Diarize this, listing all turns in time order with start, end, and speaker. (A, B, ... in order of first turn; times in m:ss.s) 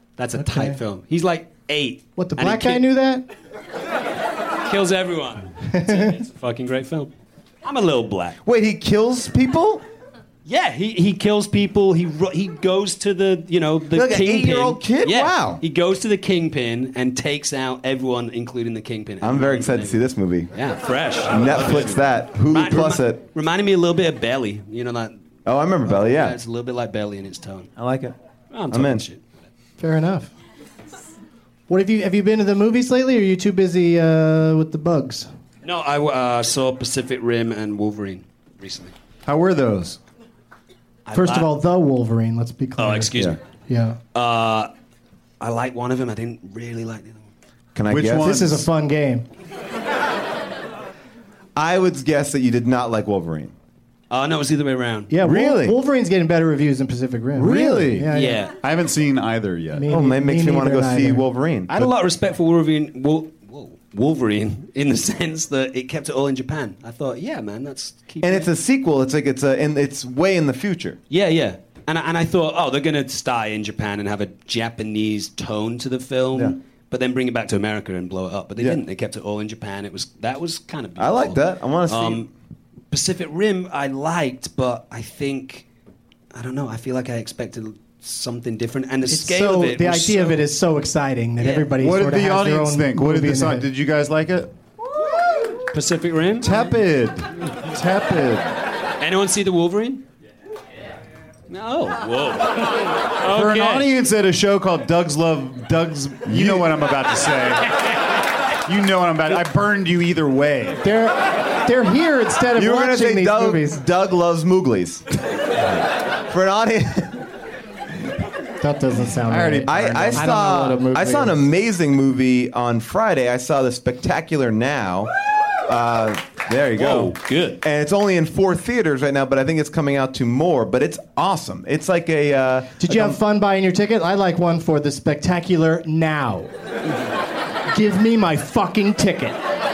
0:00.2-0:02.9 A
0:00.4-0:00.8 B
0:02.2-0:03.2 B
0:04.6-0:07.1 A
0:05.7-0:06.2 B
0:07.6-0:08.4 A
0:08.4-0:09.8 C
0:10.4-0:20.0 A
0:13.9-0:15.6 C
0:19.2-0:20.5 C
0:20.5-0:25.1 A
0:21.3-0:23.2 C
0:25.4-0:26.4 C
0:25.8-0:27.7 A
0:27.8-0:28.1 C
0:28.5-0:29.2 A
0:28.7-0:29.0 C
0:29.8-0:30.3 B
0:31.7-0:35.3 B
0:35.6-0:38.9 A
0:39.2-0:40.0 D
0:41.0-0:41.5 A
0:41.1-0:43.1 B
0:42.8-0:43.4 A
0:43.7-0:44.0 B
0:44.1-0:44.7 A
0:45.4-0:47.2 A
0:47.7-0:48.4 C
0:47.9-0:48.6 D
0:48.2-0:49.2 B
0:51.6-0:53.5 C
0:54.1-0:55.1 A
0:55.1-0:58.4 B
0:55.2-0:55.8 C
0:57.3-0:59.9 D
0:58.1-0:58.5 A
0:59.7-1:01.3 B
0:59.9-1:01.7 C
1:01.7-1:08.5 A
1:08.2-1:11.0 C
1:11.1-1:22.3 A
1:21.0-1:22.2 C
1:22.9-1:25.6 A
1:26.3-1:30.4 A
1:29.1-1:33.7 B
1:31.4-1:31.7 A
1:31.7-1:34.5 D
1:35.7-1:36.6 A
1:36.4-1:38.5 D
1:39.0-1:40.0 A
1:41.5-1:43.9 A
1:43.2-1:47.7 D
1:46.3-1:46.7 C
1:48.6-1:50.8 D
1:50.8-1:53.8 B
1:52.6-1:55.1 C
1:56.3-1:57.2 C
1:58.6-2:01.4 B
1:59.2-2:00.3 D
1:59.7-2:05.1 C
2:05.6-2:13.2 C
2:06.8-2:07.6 A
2:12.8-2:16.5 B
2:17.7-2:19.4 B